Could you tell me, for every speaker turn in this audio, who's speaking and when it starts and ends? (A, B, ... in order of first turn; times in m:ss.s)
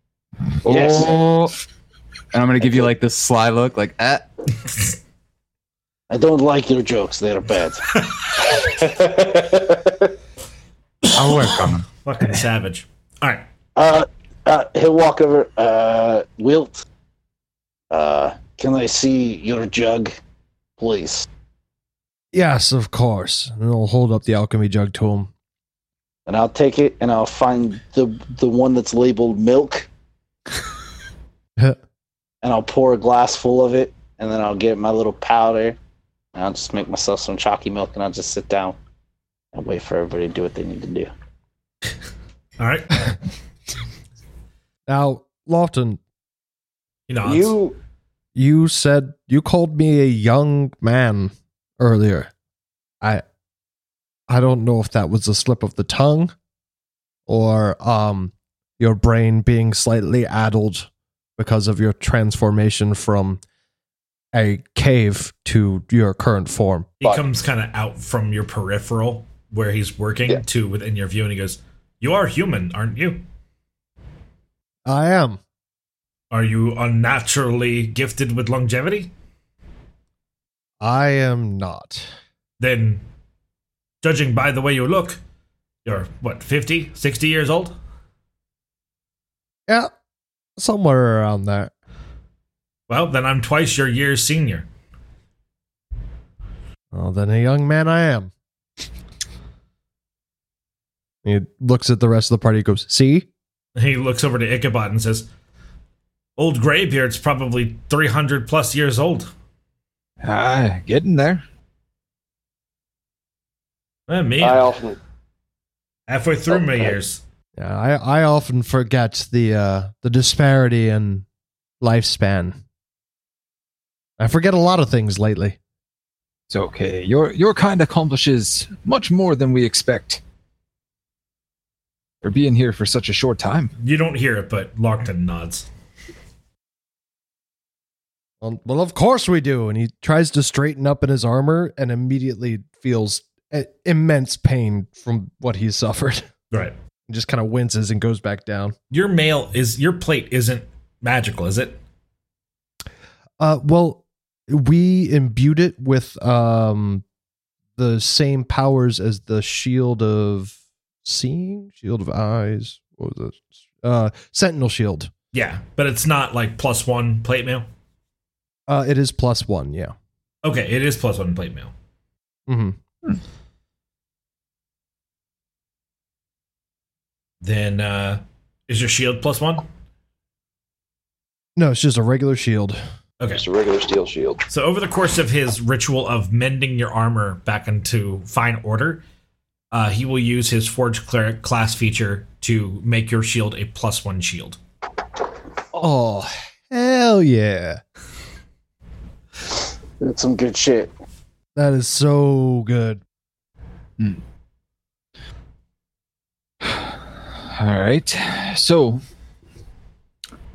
0:00.6-0:01.5 A
0:00.7-0:01.2 B
0:02.3-0:04.3 A
0:06.1-0:08.0 B
0:08.8-0:09.9 C
0:11.1-0:11.9 A
0:12.0-0:13.4 D
0:13.8-0:16.8 B
0:17.9-0:20.2 B
0:20.8-0:21.3 B
0:22.3-0:25.3 E
0:26.3-0:29.9 B
0:32.4-0:35.8 B
0:36.4-0:38.8 B
0:39.5-0:41.1 B
0:42.6-0:43.2 D
0:44.9-0:46.0 E
0:47.1-0:47.6 D
0:47.2-0:47.7 C
0:48.4-0:52.3 E
0:54.3-0:56.3 E
0:57.3-1:03.4 E
1:04.3-1:07.0 E
1:07.0-1:13.2 D
1:14.9-1:15.4 E
1:16.3-1:19.1 D
1:20.8-1:22.1 E
1:22.6-1:23.0 D
1:24.0-1:25.2 D
1:25.9-1:27.8 D
1:30.6-1:31.7 E
1:32.9-1:34.7 D
1:36.9-1:38.3 E
1:41.2-1:43.3 E
1:43.8-1:45.3 D
1:46.4-1:49.3 D
1:50.2-1:51.4 F
1:54.1-1:54.8 D
1:54.4-1:55.0 C
1:56.1-1:57.2 D
1:56.6-1:56.9 C
1:57.6-2:01.2 E
2:01.8-2:02.6 E
2:04.2-2:05.6 E
2:06.5-2:10.2 F
2:12.2-2:13.7 F
2:13.8-2:15.7 D
2:18.4-2:26.3 E
2:27.1-2:28.8 E
2:28.9-2:31.8 D
2:33.4-2:37.0 E
2:37.8-2:45.1 E
2:45.3-2:47.7 D
2:48.7-2:49.9 E
2:50.4-2:51.7 D
2:52.5-2:52.8 E
2:57.4-2:59.7 D
3:01.6-3:02.8 E
3:03.3-3:04.4 C
3:04.5-3:09.0 D
3:09.7-3:14.6 D
3:15.7-3:17.8 E
3:20.0-3:20.9 B
3:21.6-3:23.0 E
3:26.6-3:29.0 F